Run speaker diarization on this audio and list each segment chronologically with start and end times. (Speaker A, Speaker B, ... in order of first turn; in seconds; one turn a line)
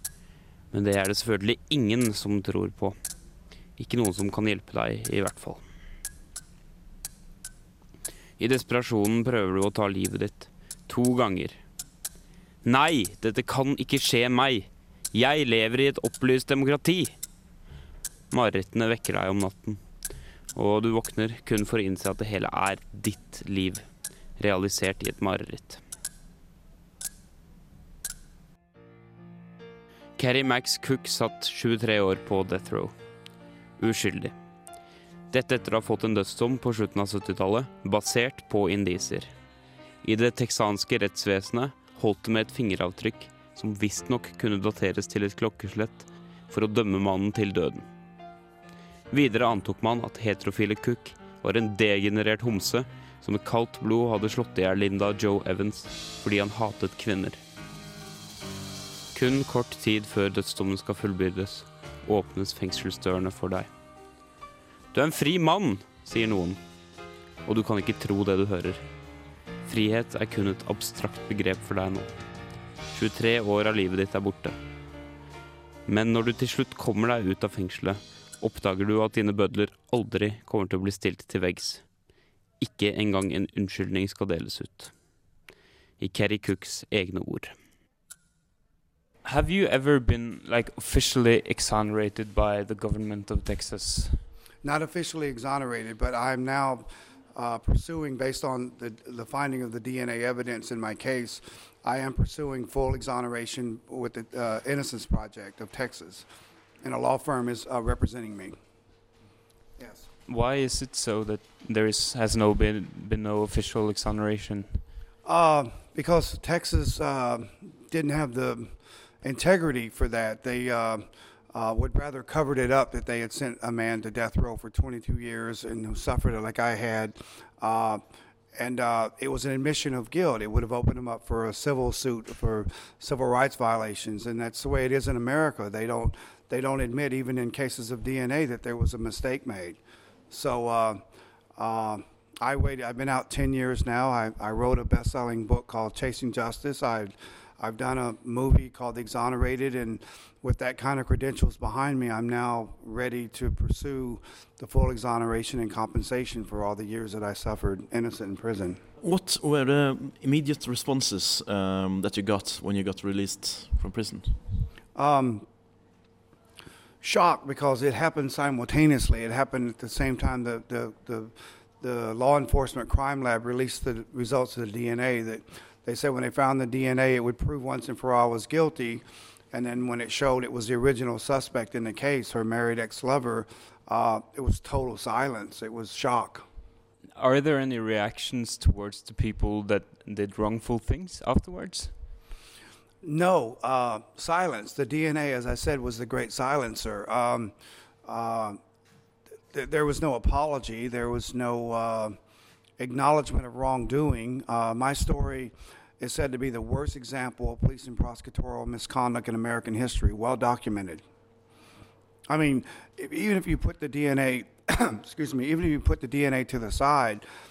Speaker A: 0.7-3.0
Speaker A: 3.8-5.6
Speaker A: 8.4-11.6
Speaker A: 12.6-17.1
Speaker A: 18.3-19.8
Speaker A: 20.5-25.8
Speaker A: 30.2-32.9
Speaker A: 33.8-34.3
Speaker A: 35.3-39.3
Speaker A: 40.0-47.9
Speaker A: 49.1-57.4
Speaker A: 59.1-63.7
Speaker A: 64.9-66.6
Speaker A: 67.4-68.8
Speaker A: 69.7-72.1
Speaker A: 72.9-74.5
Speaker A: 75.9-81.8
Speaker A: 82.6-84.9
Speaker A: 86.0-87.5
Speaker B: 89.2-94.2
Speaker C: 94.6-106.2
Speaker C: 106.8-108.6
Speaker C: 109.8-110.0
Speaker B: 110.3-114.8
Speaker C: 115.2-128.0
Speaker C: 128.6-139.8
Speaker C: 140.3-141.0
Speaker C: 141.6-158.8
Speaker D: 159.0-164.4
Speaker C: 164.9-165.4
Speaker C: 167.0-186.4
Speaker B: 187.2-191.9
Speaker C: 193.0-197.5
Speaker C: 198.1-198.6
Speaker C: 199.5-202.2
Speaker C: 202.8-211.0
Speaker C: 212.3-217.2